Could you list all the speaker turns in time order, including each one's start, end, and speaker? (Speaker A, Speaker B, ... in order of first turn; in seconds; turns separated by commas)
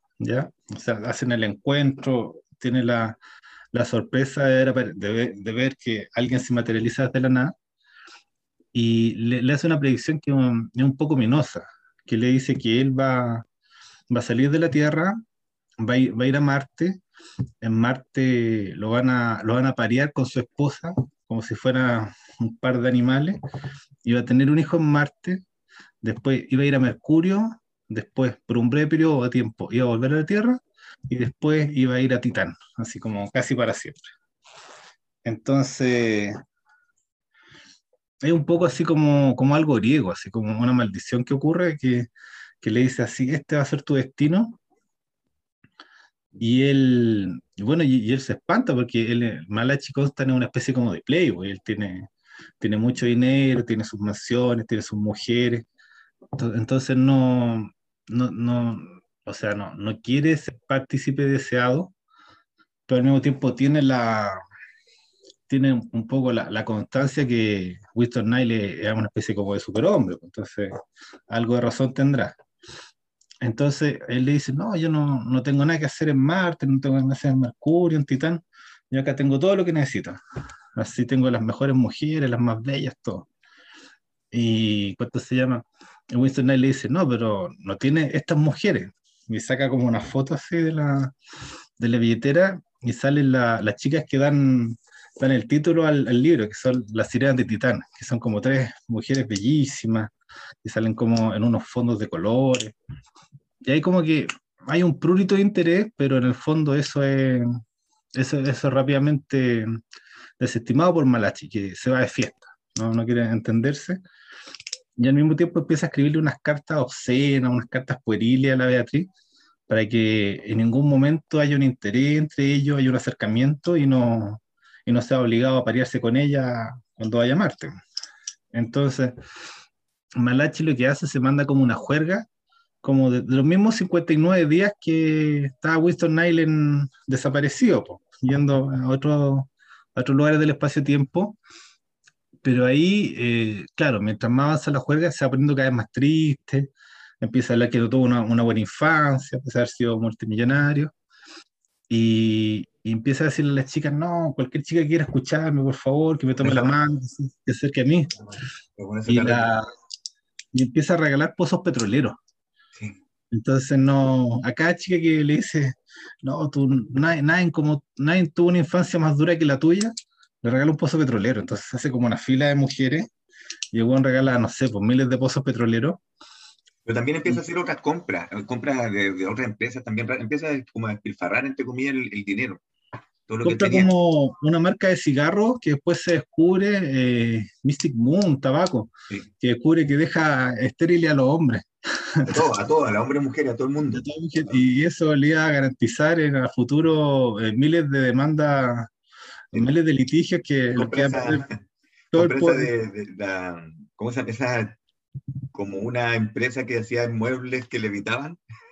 Speaker A: 0.2-3.2, Speaker A: 3.7-7.5, Speaker A: 8.7-13.4, Speaker A: 14.1-15.2, Speaker A: 15.8-17.0, Speaker A: 17.6-23.4, Speaker A: 24.0-25.4, Speaker A: 26.0-34.0, Speaker A: 35.2-36.3, Speaker A: 38.2-42.1, Speaker A: 42.6-44.6, Speaker A: 46.4-55.6, Speaker A: 56.4-61.9, Speaker A: 62.9-64.4, Speaker A: 65.5-72.3, Speaker A: 73.4-80.2, Speaker A: 80.7-83.3, Speaker A: 84.3-91.1, Speaker A: 91.8-100.1, Speaker A: 100.6-102.8, Speaker A: 103.6-107.6, Speaker A: 108.1-109.8, Speaker A: 110.4-114.0, Speaker A: 115.0-119.1, Speaker A: 119.7-127.7, Speaker A: 128.5-129.1, Speaker A: 130.2-132.2, Speaker A: 132.8-141.4, Speaker A: 142.4-150.9, Speaker A: 151.9-158.1, Speaker B: 156.4-156.7, Speaker B: 158.8-159.5, Speaker A: 159.1-159.7, Speaker A: 160.5-162.2, Speaker A: 163.3-173.1, Speaker A: 173.7-176.0, Speaker B: 176.8-182.6, Speaker B: 183.3-183.9, Speaker A: 183.4-192.5, Speaker B: 192.2-194.0, Speaker A: 193.9-198.9, Speaker A: 199.5-201.4, Speaker B: 200.7-201.6, Speaker A: 202.1-202.7, Speaker B: 202.1-204.8, Speaker B: 205.5-208.4